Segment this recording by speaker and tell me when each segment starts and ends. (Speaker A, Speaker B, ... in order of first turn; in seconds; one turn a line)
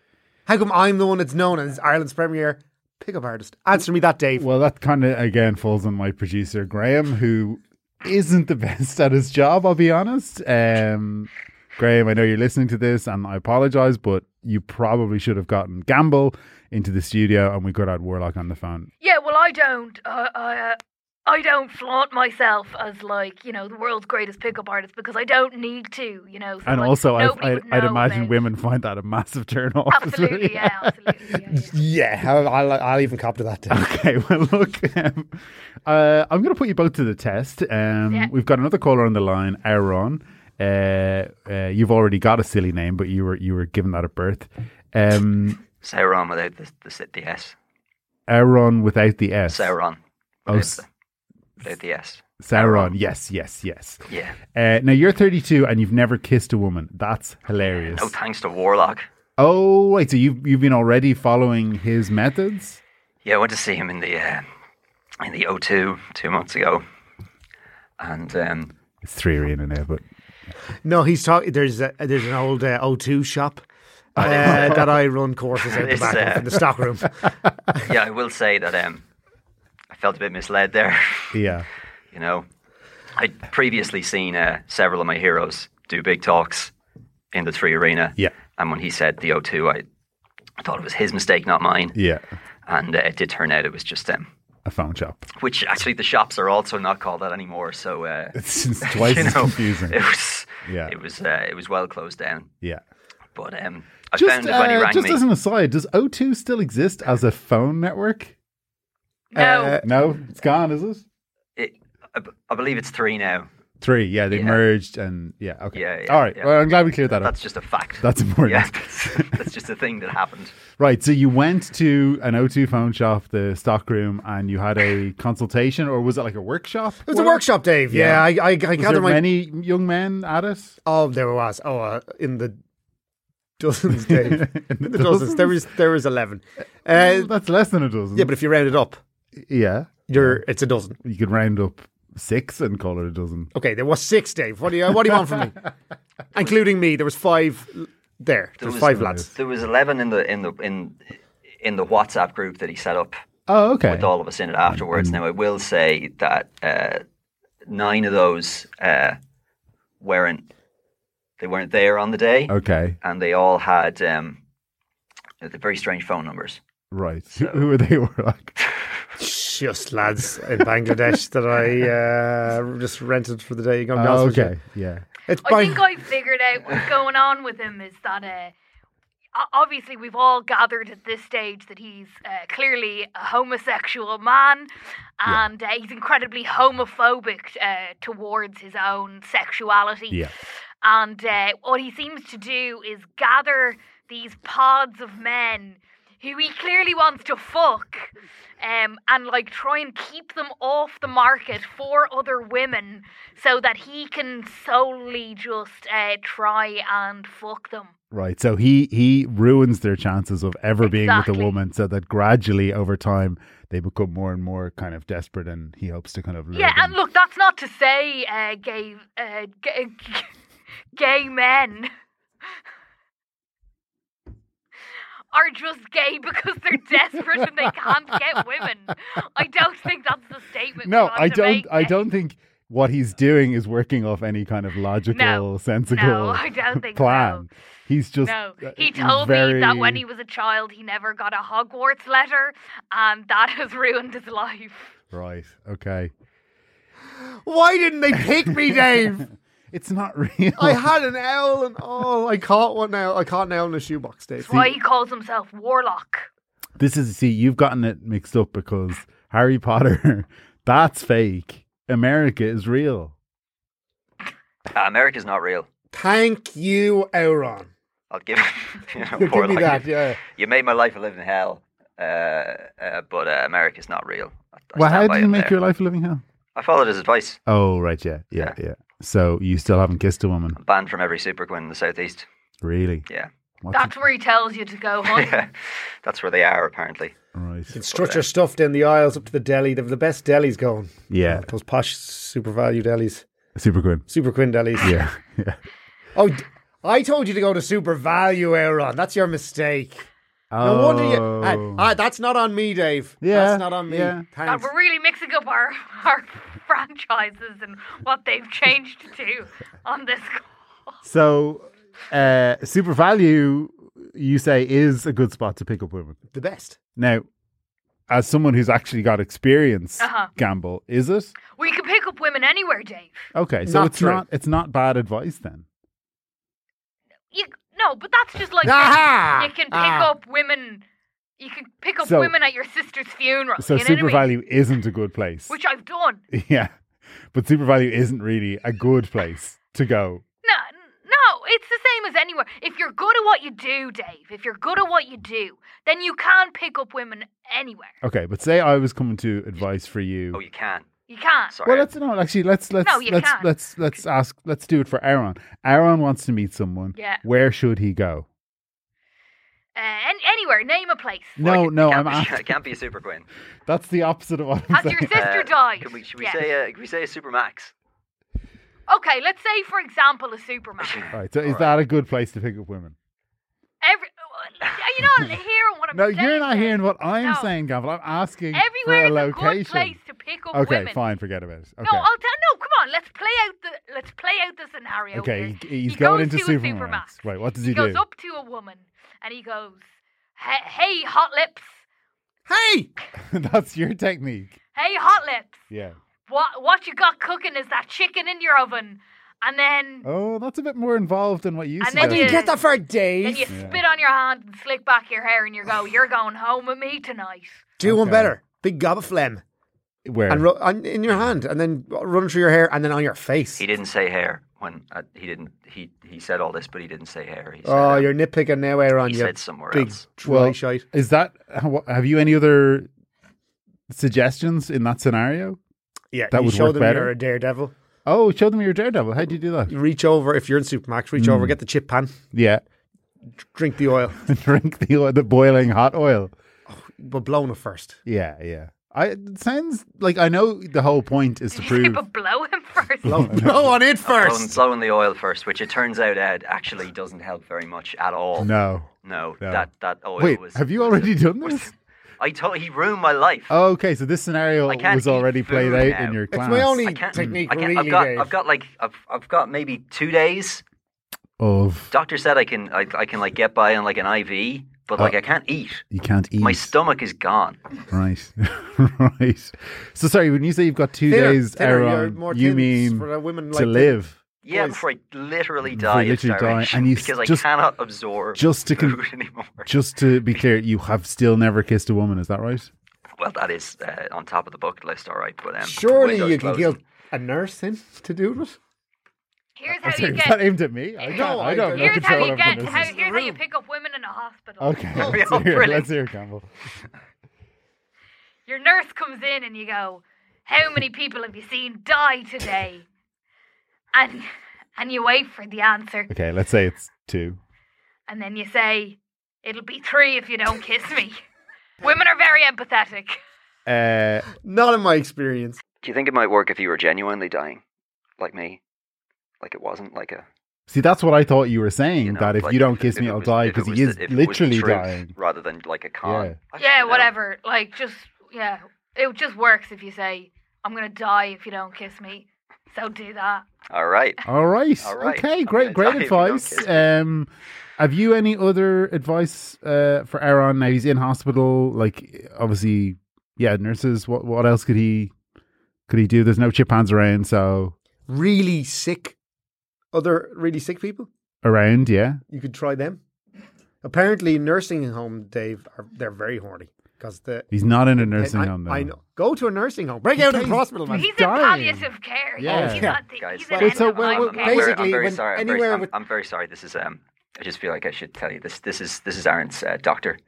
Speaker A: 0.5-4.5
Speaker B: 4.4-18.9
Speaker C: 19.0-28.4
Speaker B: 26.6-31.4
Speaker C: 29.9-31.7
Speaker A: 31.6-33.8
Speaker B: 33.7-45.6
Speaker D: 45.8-47.5
Speaker B: 48.3-49.7
Speaker D: 49.5-50.9
Speaker B: 50.5-50.8
Speaker D: 51.6-52.9
Speaker B: 52.4-58.1
Speaker D: 54.1-54.4
Speaker D: 57.8-59.1
Speaker B: 59.4-62.8
Speaker D: 63.2-64.5
Speaker D: 65.2-66.8
Speaker D: 68.0-68.7
Speaker B: 69.0-70.0
Speaker A: 70.8-73.7
Speaker B: 74.2-75.0
Speaker A: 74.2-77.8
Speaker D: 74.2-75.0
Speaker D: 75.6-76.7
Speaker D: 77.8-79.0
Speaker D: 79.9-81.5
Speaker B: 81.3-81.7
Speaker D: 82.1-82.5
Speaker D: 83.2-86.7
Speaker D: 87.3-89.8
Speaker D: 90.6-92.0
Speaker B: 92.0-92.2
Speaker D: 92.7-94.3
Speaker B: 94.7-95.3
Speaker D: 95.4-102.5
Speaker B: 98.3-100.0
Speaker B: 100.6-100.9
Speaker D: 103.3-105.2
Speaker B: 104.2-108.3
Speaker C: 109.3-109.8
Speaker A: 109.3-109.9
Speaker B: 109.8-111.0
Speaker D: 111.6-113.5
Speaker B: 113.8-117.3
Speaker D: 114.3-114.6
Speaker D: 115.7-116.5
Speaker D: 117.1-120.6
Speaker B: 118.0-119.4
Speaker B: 120.8-130.8
Speaker A: 127.1-129.2
Speaker A: 130.8-132.6
Speaker A: 133.6-137.3
Speaker B: 134.0-135.7
Speaker B: 136.9-138.3
Speaker A: 138.2-139.0
Speaker B: 139.4-140.4
Speaker A: 140.1-141.0
Speaker B: 141.0-143.5
Speaker A: 143.6-145.7
Speaker A: 146.3-149.3
Speaker D: 148.6-153.2
Speaker B: 148.9-149.3
Speaker B: 153.5-154.1
Speaker D: 153.9-157.0
Speaker B: 154.7-155.2
Speaker D: 157.7-159.2
Speaker D: 160.0-160.5
Speaker D: 161.4-164.4
Speaker B: 162.5-163.0
Speaker D: 165.4-166.6
Speaker B: 166.9-168.6
Speaker D: 167.3-167.7
Speaker A: 169.2-174.6
Speaker B: 173.9-175.1
Speaker A: 175.3-175.9
Speaker C: 175.4-178.5
Speaker C: 179.3-184.7
Speaker C: 185.2-207.9
Speaker B: 208.1-217.0
Speaker C: 210.8-211.5
Speaker C: 216.5-220.3
Speaker C: 220.9-221.9
Speaker C: 225.3-232.0
Speaker B: 230.8-240.0
Speaker C: 235.1-237.5
Speaker C: 238.2-244.9
Speaker B: 245.1-246.1
Speaker A: 247.4-249.2
Speaker B: 248.6-250.9
Speaker A: 250.6-254.7
Speaker C: 254.4-256.3
Speaker B: 256.8-263.1
Speaker D: 264.7-265.7
Speaker A: 265.9-267.7
Speaker D: 268.1-275.6
Speaker A: 268.9-270.2
Speaker B: 274.8-276.2
Speaker D: 276.6-277.4
Speaker B: 277.5-280.6
Speaker D: 280.6-282.3
Speaker B: 282.6-283.1
Speaker B: 283.6-283.9
Speaker C: 283.7-285.5
Speaker D: 285.1-287.2
Speaker B: 287.4-287.7
Speaker A: 287.7-293.3
Speaker D: 287.9-288.3
Speaker B: 291.1-291.5
Speaker B: 293.6-294.1
Speaker A: 294.1-295.0
Speaker B: 294.8-295.6
Speaker A: 296.1-300.1
Speaker B: 300.5-301.9
Speaker A: 300.6-304.7
Speaker B: 303.2-304.3
Speaker C: 304.4-310.5
Speaker B: 311.0-316.2
Speaker A: 316.3-316.8
Speaker B: 317.0-317.3
Speaker B: 318.1-321.4
Speaker C: 320.0-320.3
Speaker C: 321.6-323.3
Speaker B: 323.3-325.6
Speaker A: 323.7-324.2
Speaker C: 327.3-330.8
Speaker A: 328.6-330.1
Speaker C: 331.4-334.3
Speaker B: 332.0-332.3
Speaker B: 333.6-335.6
Speaker C: 335.5-336.2
Speaker B: 336.3-336.7
Speaker B: 337.3-340.2
Speaker C: 340.4-347.9
Speaker B: 348.0-350.4
Speaker D: 350.3-350.9
Speaker C: 351.1-351.6
Speaker D: 351.5-351.9
Speaker B: 351.7-358.3
Speaker C: 352.8-353.5
Speaker C: 356.9-357.2
Speaker C: 359.8-361.4
Speaker B: 361.4-362.5
Speaker D: 361.4-363.3
Speaker B: 363.7-365.2
Speaker C: 364.7-366.4
Speaker D: 365.1-367.7
Speaker C: 368.9-371.0
Speaker D: 370.8-371.7
Speaker B: 371.1-373.0
Speaker C: 373.8-377.5
Speaker B: 375.9-380.0
Speaker C: 378.5-381.0
Speaker B: 380.5-382.1
Speaker C: 381.8-391.8
Speaker B: 385.1-388.0
Speaker A: 392.5-392.9
Speaker B: 393.2-394.6
Speaker C: 394.8-395.6
Speaker B: 395.7-396.0
Speaker C: 396.3-400.1
Speaker B: 400.1-402.4
Speaker C: 401.8-402.6
Speaker A: 402.0-403.5
Speaker C: 403.2-407.6
Speaker B: 403.5-403.8
Speaker A: 407.8-409.4
Speaker B: 407.8-408.4
Speaker B: 410.1-410.5
Speaker A: 410.3-413.6
Speaker D: 413.6-418.1
Speaker A: 417.6-420.9
Speaker D: 419.0-420.0
Speaker B: 420.3-422.9
Speaker B: 423.9-425.6
Speaker A: 426.1-427.7
Speaker B: 426.3-427.1
Speaker B: 428.1-429.8
Speaker A: 429.7-432.2
Speaker B: 431.2-431.6
Speaker B: 432.3-432.6
Speaker A: 433.4-434.2
Speaker B: 434.3-436.3
Speaker A: 436.7-438.0
Speaker B: 438.1-442.0
Speaker C: 441.5-443.3
Speaker A: 443.1-444.6
Speaker B: 443.1-443.7
Speaker D: 444.0-448.5
Speaker B: 448.4-448.9
Speaker D: 449.0-453.5
Speaker B: 449.4-449.7
Speaker B: 450.2-451.7
Speaker B: 453.5-457.4
Speaker D: 454.7-460.6
Speaker A: 456.3-458.3
Speaker B: 461.4-461.9
Speaker D: 461.9-465.9
Speaker B: 465.9-466.7
Speaker D: 466.4-467.6
Speaker B: 467.9-474.2
Speaker A: 471.1-473.9
Speaker D: 474.4-479.7
Speaker A: 474.5-474.8
Speaker B: 475.7-477.4
Speaker B: 478.4-479.0
Speaker B: 479.6-482.7
Speaker D: 483.2-486.8
Speaker A: 485.6-488.6
Speaker C: 489.6-495.6
Speaker B: 489.7-493.0
Speaker A: 491.1-493.4
Speaker B: 494.6-496.5
Speaker D: 494.9-495.9
Speaker C: 498.5-502.9
Speaker C: 503.9-506.1
Speaker B: 506.1-507.4
Speaker C: 508.1-511.2
Speaker C: 511.8-513.2
Speaker B: 513.7-514.3
Speaker A: 514.4-515.6
Speaker D: 515.8-517.6
Speaker D: 518.2-518.6
Speaker D: 519.4-520.2
Speaker B: 520.7-525.1
Speaker D: 522.0-527.1
Speaker B: 526.0-526.4
Speaker C: 526.6-533.4
Speaker D: 533.7-534.2
Speaker B: 534.3-545.1
Speaker D: 534.8-536.9
Speaker B: 545.9-547.7
Speaker A: 548.1-549.2
Speaker A: 549.9-551.1
Speaker B: 551.4-552.2
Speaker A: 552.3-553.0
Speaker A: 553.8-561.1
Speaker B: 557.5-558.9
Speaker B: 560.2-563.0
Speaker C: 560.9-564.8
Speaker A: 562.4-562.9
Speaker D: 563.2-570.2
Speaker B: 563.6-564.7
Speaker A: 564.3-565.9